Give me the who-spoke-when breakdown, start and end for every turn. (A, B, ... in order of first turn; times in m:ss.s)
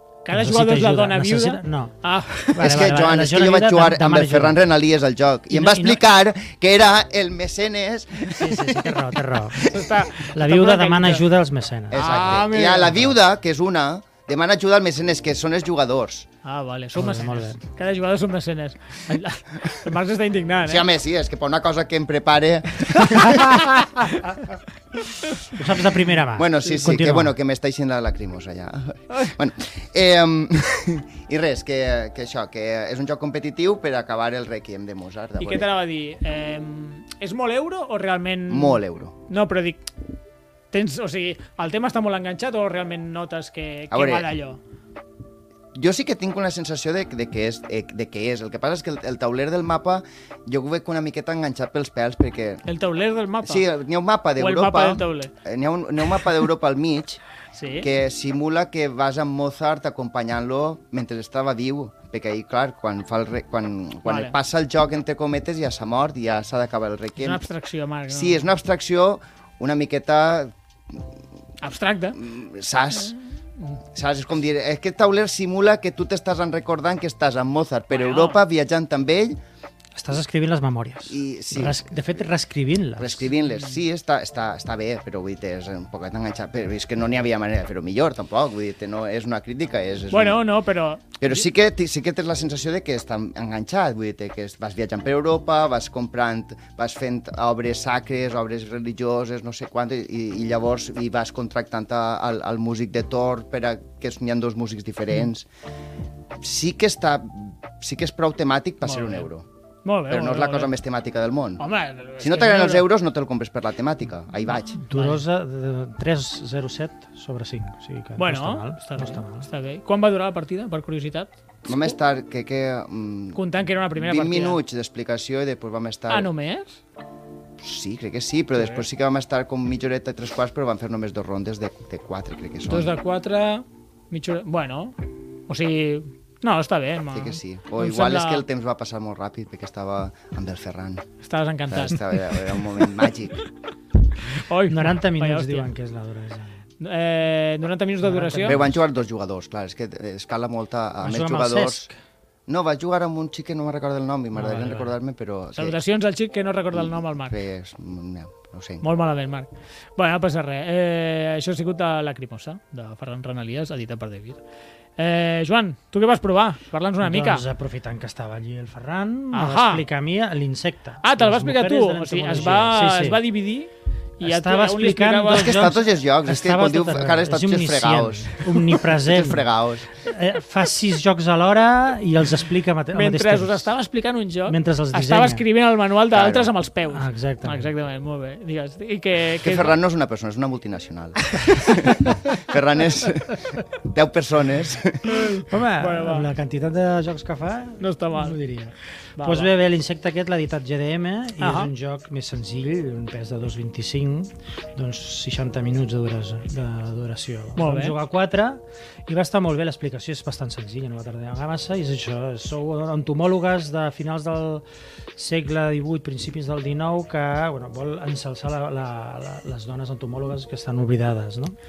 0:00.2-0:02.9 A
0:00.3-0:04.6 B
0:02.6-0:09.0 C
0:05.5-0:06.0 B
0:08.3-0:12.2 B
0:09.6-0:11.2 A
0:11.9-0:16.3 C
0:11.9-0:13.1 A
0:16.4-0:20.9 A
0:17.0-0:17.6 B
0:20.6-0:23.7 C
0:25.5-0:27.3 B
0:26.4-0:35.7 C
0:35.4-0:39.9 A
0:38.5-0:39.1 C
0:40.7-0:44.6 A
0:43.9-0:44.3 C
0:45.7-0:52.6 C
0:52.6-0:53.6 A
0:53.4-0:57.2 C
0:54.4-0:55.3 A
0:57.5-0:57.9 A
0:57.8-1:07.4 C
1:04.0-1:04.4 A
1:07.2-1:08.4 A
1:08.1-1:11.0 C
1:11.6-1:12.2 A
1:12.2-1:13.2 C
1:13.0-1:13.8 A
1:13.9-1:19.4 C
1:17.9-1:18.4 A
1:20.0-1:23.3 B
1:21.1-1:22.2 C
1:23.0-1:30.4 C
1:30.1-1:31.5 A
1:31.2-1:45.5 C
1:46.4-1:49.4 C
1:48.8-1:49.3 A
1:49.8-1:50.7 A
1:50.1-1:51.6 C
1:51.6-1:52.9 A
1:52.2-1:54.8 C
1:54.7-1:55.2 A
1:54.9-1:59.5 B
1:58.2-2:01.3 A
2:01.6-2:06.3 C
2:03.3-2:04.6 A
2:06.1-2:06.8 A
2:07.6-2:13.0 C
2:12.7-2:15.0 A
2:15.5-2:18.4 A
2:17.1-2:21.0 C
2:21.2-2:22.6 A
2:21.7-2:23.4 C
2:24.2-2:25.7 A
2:24.7-2:26.6 B
2:26.8-2:28.6 A
2:28.0-2:28.7 B
2:28.4-2:31.9 C
2:31.0-2:31.9 B
2:32.5-2:35.8 C
2:34.4-2:34.9 A
2:35.5-2:37.4 A
2:36.7-2:38.8 C
2:38.8-2:44.4 A
2:45.0-2:47.4 A
2:47.0-2:53.2 B
2:49.3-2:49.8 A
2:51.0-2:55.7 A
2:54.2-2:59.4 B
2:55.4-2:59.9 C
3:00.0-3:03.7 B
3:02.9-3:09.7 A
3:04.5-3:05.4 B
3:06.1-3:06.5 C
3:06.9-3:07.7 B
3:09.4-3:15.3 C
3:11.4-3:12.1 A
3:15.1-3:16.3 A
3:15.5-3:34.6 B
3:17.8-3:18.4 A
3:19.2-3:19.5 A
3:21.4-3:21.7 A
3:27.6-3:28.0 A
3:35.2-3:41.6 B